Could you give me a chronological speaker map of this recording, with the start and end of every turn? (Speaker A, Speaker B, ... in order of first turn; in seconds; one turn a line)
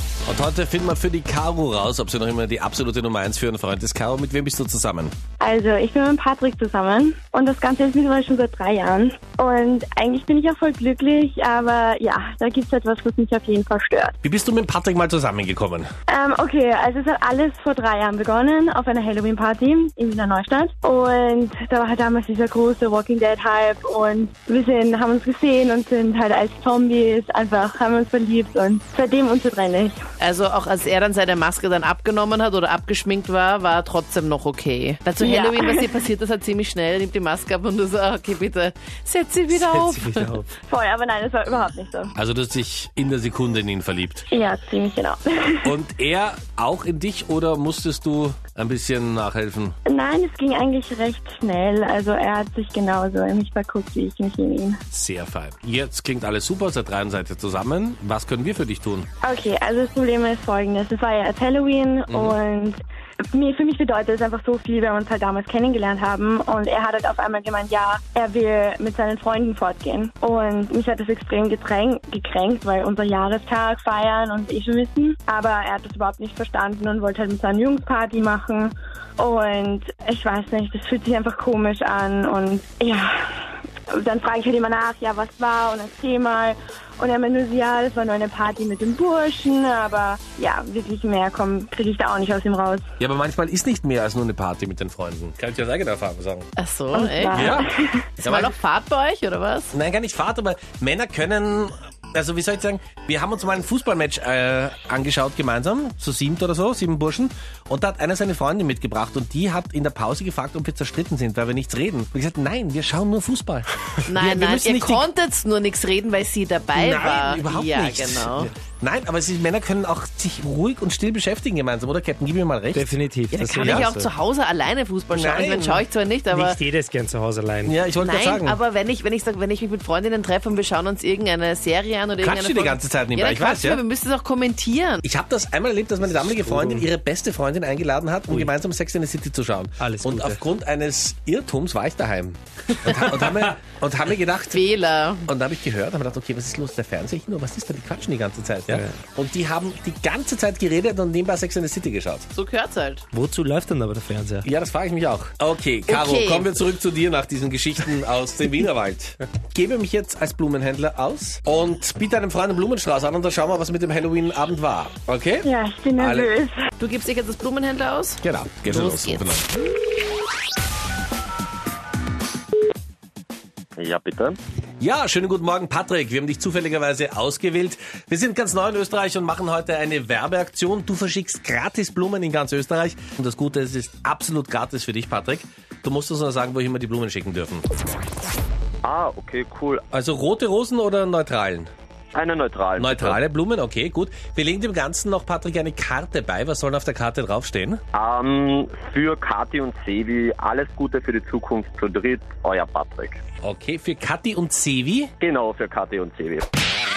Speaker A: 0.2-5.1
Speaker B: 5.4-14.2
Speaker A: 14.2-15.9
Speaker B: 16.1-30.0
Speaker C: 30.2-40.4
Speaker B: 35.2-35.8
Speaker D: 39.6-40.4
Speaker B: 40.6-42.1
Speaker A: 42.2-44.3
Speaker B: 44.3-45.7
Speaker A: 45.6-49.7
Speaker B: 49.8-54.8
Speaker A: 54.9-59.1
Speaker B: 59.2-62.8
Speaker A: 62.1-62.4
Speaker B: 63.3-83.3
Speaker B: 83.9-92.9
Speaker A: 93.0-96.5
Speaker C: 96.6-97.5
Speaker B: 96.9-98.1
Speaker A: 97.3-97.7
Speaker C: 98.2-99.7
Speaker A: 98.2-98.5
Speaker A: 99.7-115.1
Speaker C: 114.1-118.5
Speaker A: 116.7-122.9
Speaker D: 122.7-124.1
Speaker C: 123.3-126.6
Speaker A: 123.6-123.9
Speaker A: 125.1-125.8
Speaker D: 126.3-127.8
Speaker A: 127.6-128.6
Speaker C: 128.0-135.0
Speaker A: 132.2-133.8
Speaker A: 135.0-144.7
Speaker D: 136.1-136.9
Speaker D: 139.8-140.4
Speaker C: 144.5-145.3
Speaker A: 145.2-152.3
Speaker C: 152.3-153.0
Speaker D: 153.1-154.5
Speaker A: 154.4-166.3
Speaker C: 155.9-156.5
Speaker B: 165.4-166.6
Speaker C: 166.8-169.4
Speaker A: 168.2-169.5
Speaker E: 173.8-174.4
Speaker A: 174.8-187.7
Speaker E: 188.8-189.8
Speaker A: 189.9-191.7
Speaker E: 192.1-193.2
Speaker A: 192.8-197.8
Speaker E: 197.9-203.2
Speaker A: 203.4-205.1
Speaker E: 205.2-206.5